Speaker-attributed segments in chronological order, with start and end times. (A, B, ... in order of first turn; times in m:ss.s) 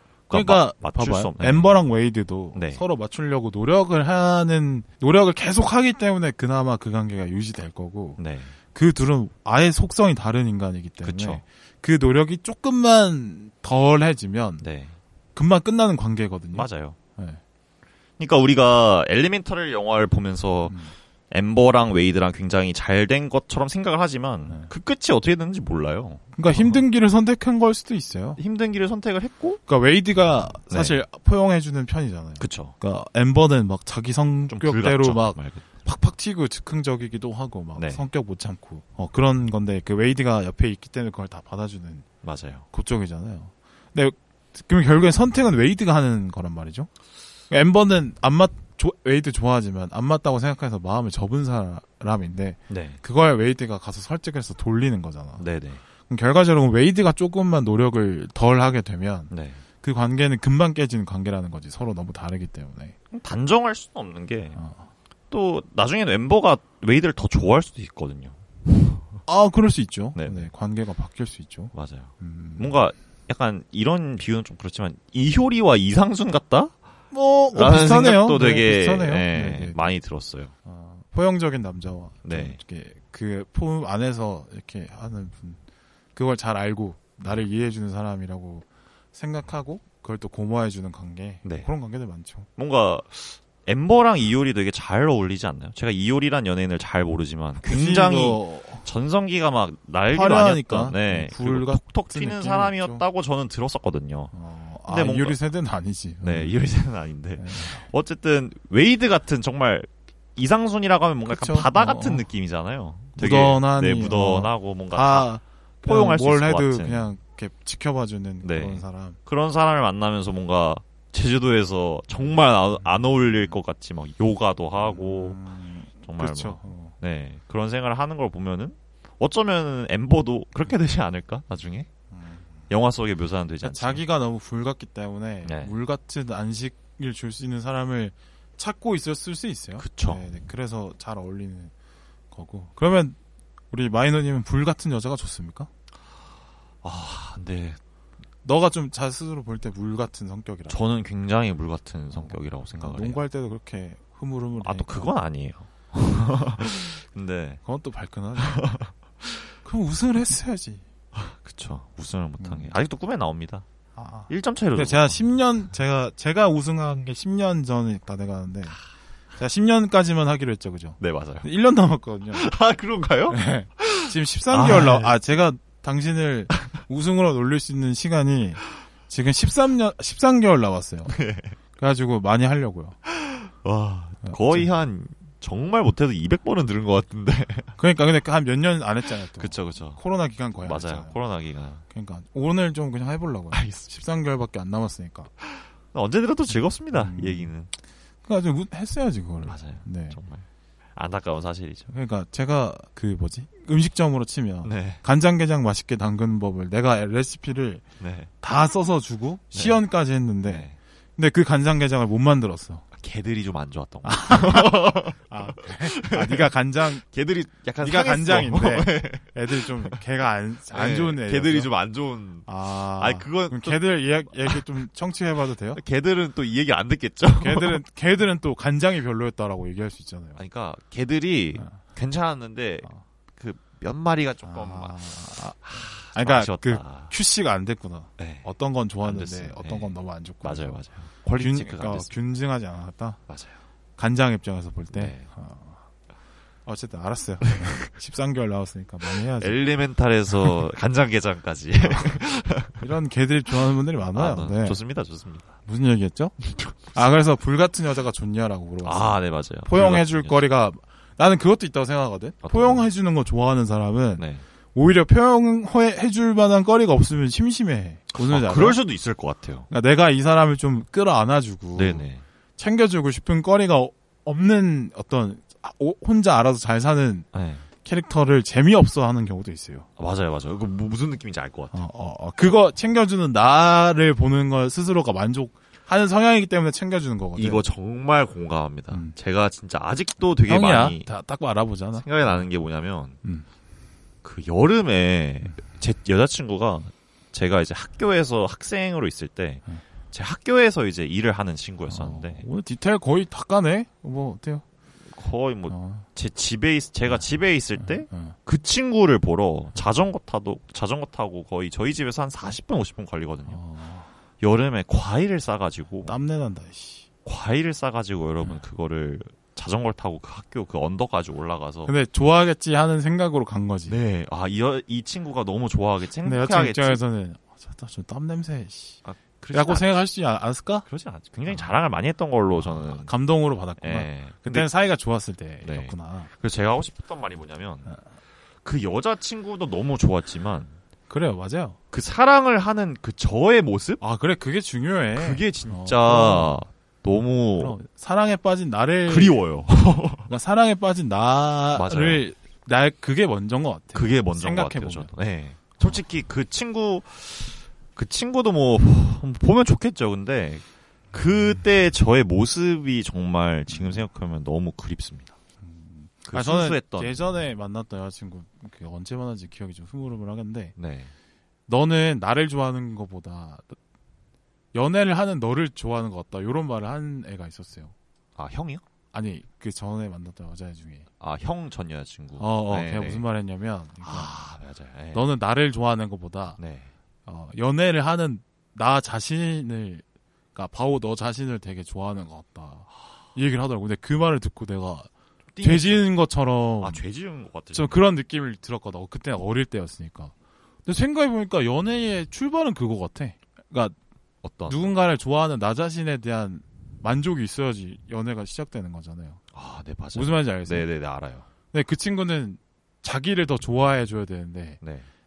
0:00.3-0:01.8 A
0:00.3-0:08.2 B
0:02.5-0:02.8 A
0:08.2-0:08.5 A
0:08.7-0:14.6 B
0:11.0-0:11.4 A
0:14.6-0:14.9 A
0:15.3-0:17.4 B
0:16.5-0:17.0 A
0:18.2-0:20.8 A
0:20.7-0:20.9 B
0:21.3-0:26.8 A
0:26.4-0:28.4 B
0:28.4-0:29.6 A
0:29.7-0:42.0 B
0:30.7-0:31.0 A
0:32.4-0:32.7 A
0:34.5-0:35.6 A
0:37.8-0:38.0 A
0:42.2-0:42.6 A
0:42.7-0:46.9 B
0:47.5-0:55.4 B
0:52.7-0:53.0 A
0:55.4-0:55.8 A
0:56.1-0:59.3 B
0:59.3-0:59.6 A
0:59.8-1:02.9 B
1:03.1-1:04.6 A
1:04.5-1:04.9 B
1:05.3-1:09.2 A
1:09.3-1:12.7 B
1:10.1-1:10.5 A
1:11.7-1:16.7 A
1:17.1-1:19.8 B
1:17.5-1:20.5 A
1:20.6-1:25.6 B
1:22.2-1:22.6 A
1:26.1-1:32.5 B
1:31.4-1:31.7 A
1:32.6-1:44.3 A
1:37.6-1:38.8 B
1:40.1-1:43.0 B
1:44.3-1:46.6 B
1:44.9-1:45.4 A
1:46.2-1:55.3 A
1:47.4-1:47.8 B
1:51.2-1:52.2 B
1:53.2-1:59.2 B
1:55.8-1:57.1 A
1:58.4-2:05.4 A
2:04.8-2:07.0 B
2:06.0-2:11.9 A
2:12.1-2:12.6 B
2:12.7-2:14.0 A
2:13.6-2:21.7 B
2:15.4-2:15.7 A
2:19.8-2:20.2 A
2:22.3-2:23.2 B
2:23.7-2:25.7 B
2:26.8-2:27.8 A
2:28.4-2:30.8 B
2:30.7-2:33.2 A
2:32.1-2:35.1 B
2:34.6-2:37.6 A
2:37.6-2:38.7 B
2:38.4-2:39.2 A
2:39.6-2:40.8 B
2:41.1-2:43.6 A
2:42.4-2:42.7 B
2:44.0-2:48.8 B
2:44.3-2:45.2 A
2:49.4-2:52.5 B
2:51.0-2:51.5 A
2:52.3-2:55.2 A
2:53.3-3:01.2 B
3:01.1-3:01.6 A
3:01.8-3:03.0 B
3:03.0-3:07.7 A
3:04.2-3:04.7 B
3:07.8-3:11.1 B
3:09.4-3:10.0 A
3:10.6-3:11.8 A
3:11.9-3:15.3 B
3:13.5-3:13.9 A
3:15.4-3:17.7 A
3:16.9-3:17.5 B
3:18.2-3:20.2 B
3:19.4-3:21.9 A
3:21.9-3:27.8 B
3:24.6-3:25.0 A
3:28.0-3:28.3 A
3:28.4-3:32.8 B
3:29.5-3:29.8 A
3:30.4-3:30.8 A
3:32.9-3:40.0 A
3:34.0-3:37.0 B
3:37.8-3:41.7 B
3:40.7-3:44.6 A
3:42.4-3:45.8 B
3:45.7-3:47.8 A
3:47.4-3:50.4 B
3:50.4-3:55.1 A
3:54.4-4:00.8 B
3:55.6-3:57.1 A
3:58.2-3:58.5 A
3:59.0-4:02.1 A
4:01.4-4:03.2 B
4:03.3-4:03.6 A
4:04.0-4:05.8 B
4:04.9-4:05.3 A
4:06.6-4:09.6 B
4:09.4-4:12.8 A
4:11.8-4:12.2 B
4:12.7-4:14.8 B
4:14.1-4:15.5 A
4:15.6-4:16.3 B
4:16.4-4:16.7 A
4:16.9-4:28.8 B
4:18.8-4:20.4 A
4:22.4-4:22.9 A
4:24.2-4:24.4 A
4:28.1-4:29.7 A
4:29.7-4:32.0 B
4:31.7-4:32.2 A
4:32.6-4:37.3 B
4:37.3-4:37.6 A
4:37.8-4:39.9 B
4:40.0-4:41.7 A
4:41.7-4:47.6 B
4:47.4-4:51.1 A
4:48.9-4:49.1 B
4:50.4-4:52.4 B
4:51.9-4:53.2 A
4:54.2-5:02.4 A
5:01.9-5:04.6 B
5:05.1-5:13.6 A
5:05.7-5:06.0 B
5:07.8-5:08.3 B
5:13.5-5:14.1 B
5:14.4-5:16.1 A
5:16.0-5:17.0 B
5:17.2-5:21.9 A
5:21.8-5:23.9 B
5:23.9-5:27.0 A
5:26.2-5:29.0 B
5:29.0-5:30.0 A
5:29.5-5:30.8 B
5:30.9-5:33.1 A
5:32.6-5:36.3 B
5:33.8-5:34.7 A
5:35.6-5:37.9 A
5:38.6-5:40.8 A
5:41.1-5:41.8 B
5:41.9-5:44.0 A
5:44.0-5:46.6 B
5:45.2-5:47.8 A
5:47.6-5:49.4 B
5:49.1-5:50.3 A
5:50.2-5:55.1 B
5:51.7-5:52.2 A
5:53.9-6:05.4 A
6:03.7-6:04.0 B
6:05.6-6:10.7 B
6:06.3-6:07.1 A
6:10.8-6:11.1 A
6:11.7-6:13.8 B
6:14.7-6:17.9 B
6:18.4-6:18.8 A
6:19.1-6:21.1 B
6:21.2-6:23.2 A
6:22.4-6:24.3 B
6:24.0-6:25.2 A
6:25.1-6:26.6 B
6:26.6-6:26.9 A
6:27.2-6:30.0 B
6:30.5-6:35.1 B
6:35.5-6:36.1 A
6:35.6-6:37.0 B
6:36.8-6:38.0 A
6:37.7-6:40.3 B
6:40.8-6:43.9 B
6:44.4-6:44.9 A
6:44.7-6:49.4 B
6:49.5-6:51.4 A
6:50.1-6:50.9 B
6:51.7-6:54.8 B
6:54.8-6:55.1 A